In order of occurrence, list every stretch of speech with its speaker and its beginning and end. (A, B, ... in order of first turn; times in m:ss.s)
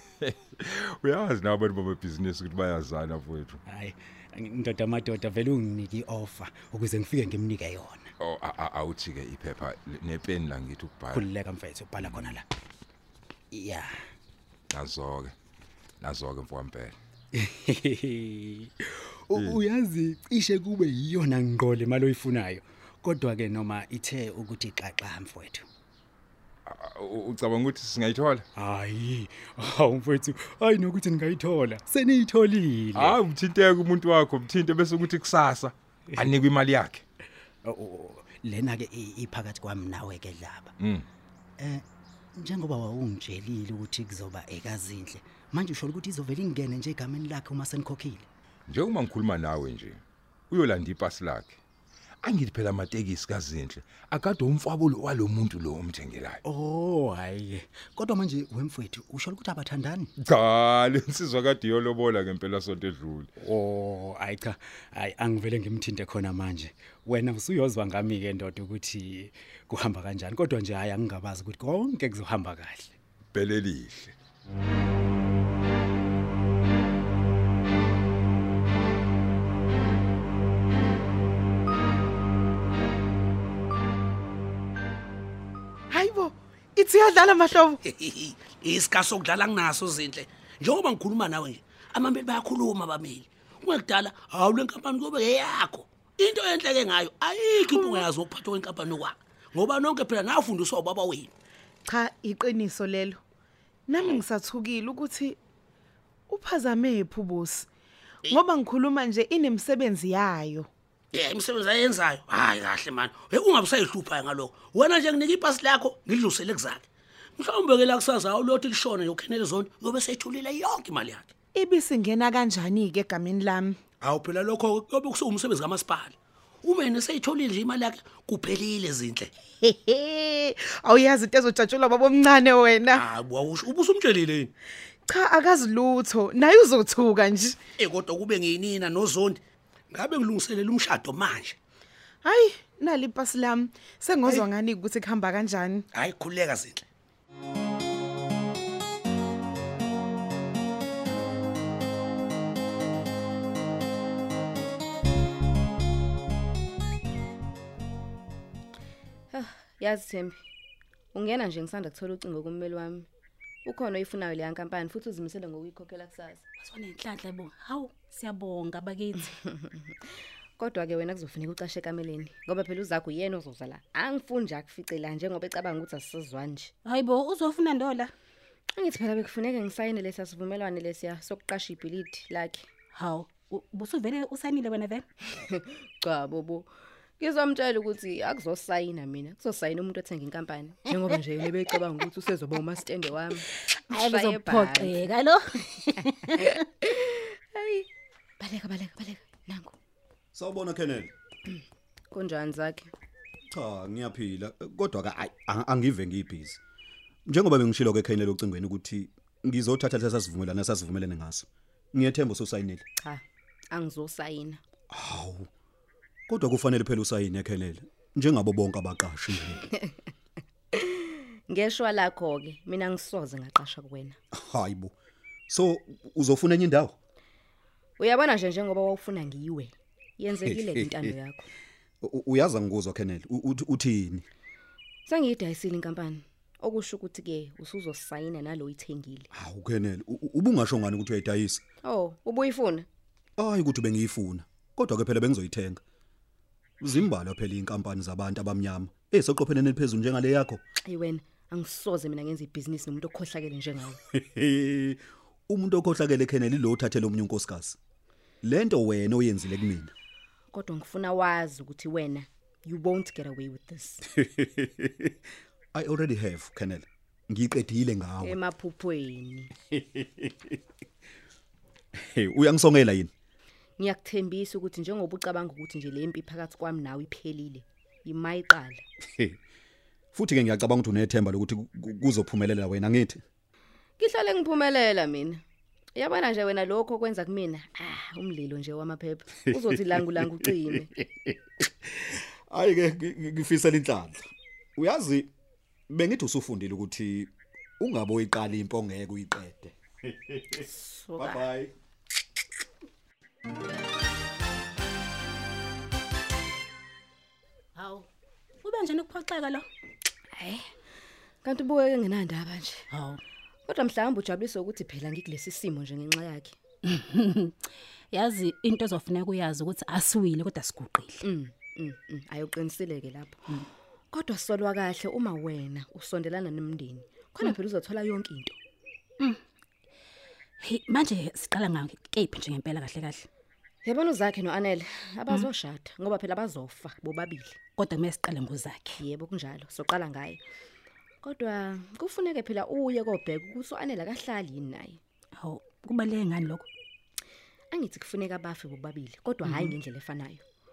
0:00.2-0:03.6 A
0:03.7-0:08.1 B
0:08.2-0:11.3 A
0:11.1-0:12.5 B
0:13.5-0:13.9 B
0:14.7-0:15.3 A
0:16.0-0:17.0 A
0:17.4-0:18.7 B
0:19.3-0:25.7 B
0:19.3-0:19.6 A
0:26.7-0:28.4 A
0:28.6-0:33.2 B
0:33.0-0:37.0 A
0:37.6-0:40.7 B
0:40.8-0:41.1 A
0:41.6-0:41.8 B
0:42.4-0:48.3 B
0:48.7-0:51.6 A
0:52.2-0:56.4 A
0:56.4-1:00.1 B
1:00.2-1:03.3 A
1:03.4-1:12.9 B
1:13.3-1:14.1 A
1:25.9-1:27.8 C
1:27.9-1:41.3 D
1:37.6-1:38.1 C
1:41.9-1:43.2 C
1:43.9-1:45.4 C
1:46.3-1:47.7 C
1:48.2-1:50.7 C
1:51.1-1:56.9 D
1:57.4-2:01.3 D
2:01.6-2:03.8 C
2:04.0-2:09.3 D
2:09.6-2:13.1 C
2:13.0-2:14.5 D
2:15.1-2:17.6 C
2:17.8-2:21.6 D
2:22.2-2:25.9 C
2:25.9-2:26.8 D
2:39.3-2:40.4 E
2:41.2-2:43.1 E
2:43.6-2:46.4 E
2:46.6-2:49.4 F
2:49.4-2:49.9 E
2:50.6-2:56.7 E
2:56.8-2:58.1 F
2:58.8-3:02.7 E
3:03.0-3:05.0 F
3:05.4-3:15.0 E
3:13.7-3:16.6 F
3:16.8-3:17.9 E
3:18.4-3:19.7 E
3:20.3-3:21.1 G
3:21.5-3:22.9 E
3:23.5-3:26.6 G
3:27.3-3:32.8 G
3:33.0-3:34.6 E
3:34.9-3:35.5 G
3:36.3-3:39.6 G
3:40.8-3:44.2 E
3:44.3-3:44.9 G
3:45.5-3:46.9 G
3:48.0-3:51.5 E
3:50.4-3:51.1 G
3:52.0-3:54.2 G
3:55.1-3:59.3 E
3:59.3-4:01.6 G
4:01.8-4:02.9 E
4:03.4-4:05.8 G
4:06.8-4:10.6 G
4:10.8-4:14.0 E
4:14.1-4:17.8 G
4:18.4-4:19.9 G
4:20.5-4:24.0 E
4:25.7-4:28.4 G
4:28.2-4:29.5 E
4:32.0-4:33.1 G
4:33.8-4:38.8 E
4:40.1-4:43.2 G
4:44.0-4:45.4 E
4:46.0-4:50.9 E
4:52.5-4:55.3 G
4:55.9-5:00.7 G
5:00.9-5:01.3 E
5:01.2-5:01.7 G
5:07.8-5:08.1 F
5:08.6-5:09.7 F
5:10.4-5:10.7 E
5:11.4-5:12.9 E
5:12.9-5:13.2 F
5:13.7-5:16.6 E
5:16.9-5:17.6 F
5:18.1-5:21.2 F
5:21.2-5:23.4 E
5:24.1-5:28.6 E
5:30.6-5:33.3 F
5:33.8-5:37.6 E
5:37.8-5:39.0 F
5:39.0-5:40.4 E
5:41.2-5:45.0 E
5:45.4-5:46.7 F
5:47.7-5:50.4 E
5:49.4-5:49.7 F